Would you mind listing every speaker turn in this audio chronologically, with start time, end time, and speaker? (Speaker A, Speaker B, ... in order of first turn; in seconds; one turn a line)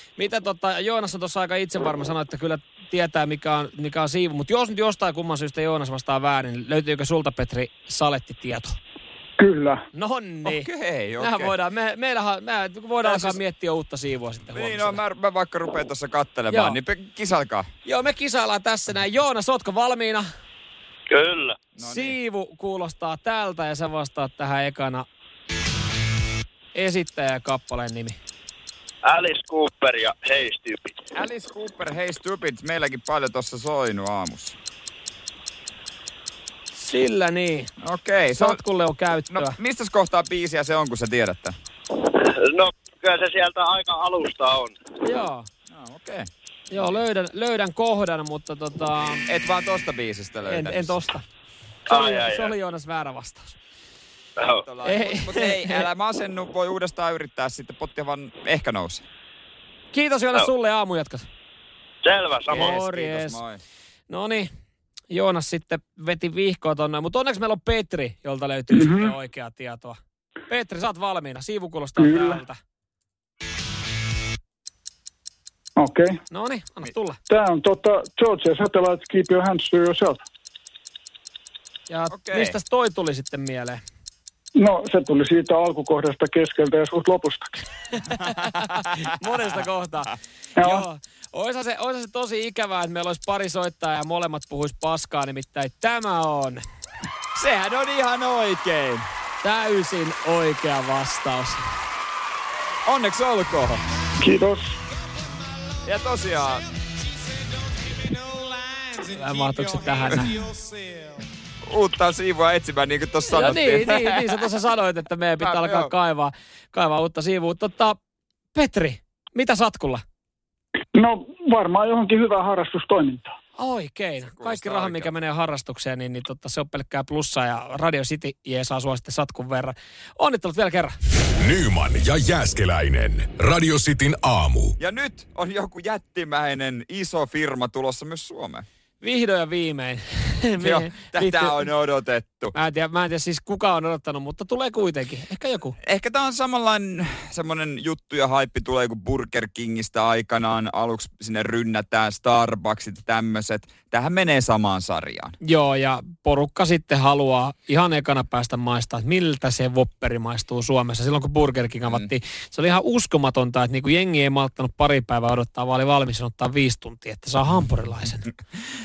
Speaker A: 0.2-8.8
Speaker B: 9.4-9.8
Speaker A: 9.9-15.0
Speaker C: 10.4-11.5
Speaker C: 13.0-13.4
Speaker C: 14.5-17.7
Speaker A: 16.5-16.8
Speaker A: 17.9-20.3
Speaker D: 21.1-21.6
Speaker C: 21.8-22.1
Speaker A: 21.8-25.1
Speaker A: 26.7-28.2
Speaker D: 29.0-31.0
Speaker C: 31.1-34.6
Speaker A: 36.7-37.7
Speaker C: 37.8-38.6
Speaker A: 38.4-39.6
Speaker C: 39.3-41.6
Speaker D: 42.0-44.8
Speaker A: 45.0-45.5
Speaker C: 45.7-46.9
Speaker A: 46.7-49.3
Speaker C: 49.3-51.0
Speaker A: 50.5-51.2
Speaker D: 51.9-52.5
Speaker A: 51.9-53.6
Speaker D: 54.4-54.6
Speaker C: 54.6-59.0
Speaker A: 54.8-55.9
Speaker A: 59.9-61.3
Speaker D: 62.0-62.7
Speaker A: 62.5-63.4
Speaker C: 62.5-63.6
Speaker A: 64.1-64.5
Speaker A: 65.1-72.6
Speaker B: 68.8-69.1
Speaker B: 72.0-72.4
Speaker B: 75.8-76.2
Speaker A: 76.3-77.2
Speaker B: 77.3-80.2
Speaker A: 81.9-83.8
Speaker C: 82.1-82.6
Speaker B: 84.6-87.6
Speaker A: 88.0-96.6
Speaker C: 88.4-89.0
Speaker B: 90.6-90.8
Speaker C: 97.3-99.1
Speaker A: 99.4-101.6
Speaker C: 102.8-103.8
Speaker B: 104.2-104.8
Speaker C: 105.8-106.7
Speaker A: 109.0-110.5
Speaker C: 111.7-114.4
Speaker A: 113.3-118.0
Speaker C: 115.4-115.9
Speaker A: 118.5-120.0
Speaker B: 120.9-123.3
Speaker A: 123.6-131.0
Speaker C: 124.2-125.1
Speaker E: 131.4-134.8
Speaker C: 134.8-138.7
Speaker A: 139.0-141.7
Speaker C: 140.6-142.6
Speaker A: 142.6-145.8
Speaker C: 145.8-155.3
Speaker A: 155.4-168.3